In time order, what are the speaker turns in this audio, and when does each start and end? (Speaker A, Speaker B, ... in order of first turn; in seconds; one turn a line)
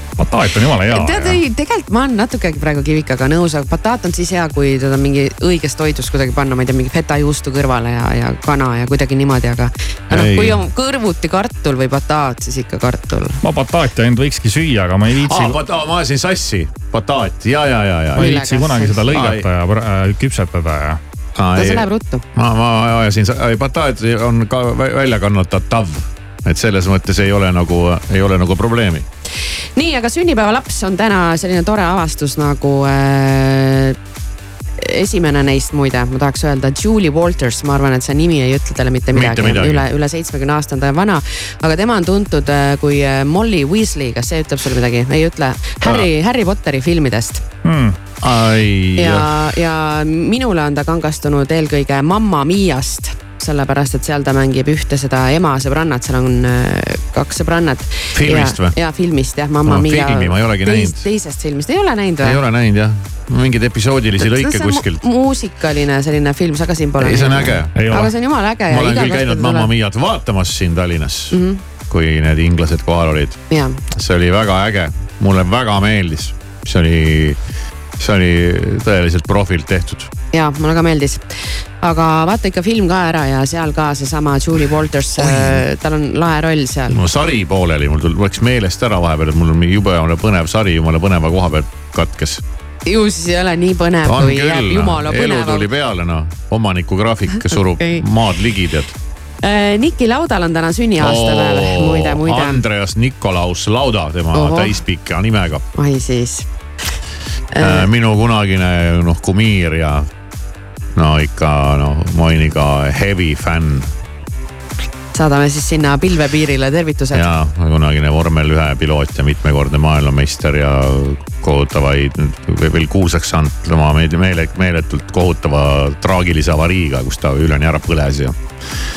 Speaker A: 0.2-1.4
Speaker B: 0.9-13.4
Speaker C: 10.1-10.6
Speaker A: 13.4-15.6
Speaker C: 15.3-18.3
Speaker B: 18.1-19.1
Speaker A: 18.2-21.0
Speaker C: 19.1-19.4
Speaker C: 21.4-29.1
Speaker B: 21.5-22.2
Speaker B: 29.8-34.0
Speaker B: 34.8-47.4
Speaker C: 39.1-39.8
Speaker A: 47.6-48.0
Speaker C: 48.2-49.3
Speaker B: 49.0-62.4
Speaker C: 58.1-58.7
Speaker C: 59.6-61.0
Speaker C: 62.2-65.0
Speaker B: 64.2-69.7
Speaker C: 67.0-67.8
Speaker A: 67.7-68.1
Speaker C: 68.7-73.4
Speaker B: 71.3-71.6
Speaker B: 73.5-73.8
Speaker C: 73.9-77.4
Speaker C: 78.0-80.1
Speaker B: 80.3-87.0
Speaker C: 85.2-85.6
Speaker C: 86.9-92.4
Speaker B: 92.8-95.7
Speaker C: 94.0-98.9
Speaker B: 97.3-98.0
Speaker B: 99.4-102.6
Speaker C: 101.0-105.6
Speaker B: 104.3-104.8
Speaker B: 105.7-106.5
Speaker B: 107.5-107.9
Speaker C: 107.6-110.1
Speaker C: 110.9-113.9
Speaker B: 115.1-117.3
Speaker C: 117.1-128.4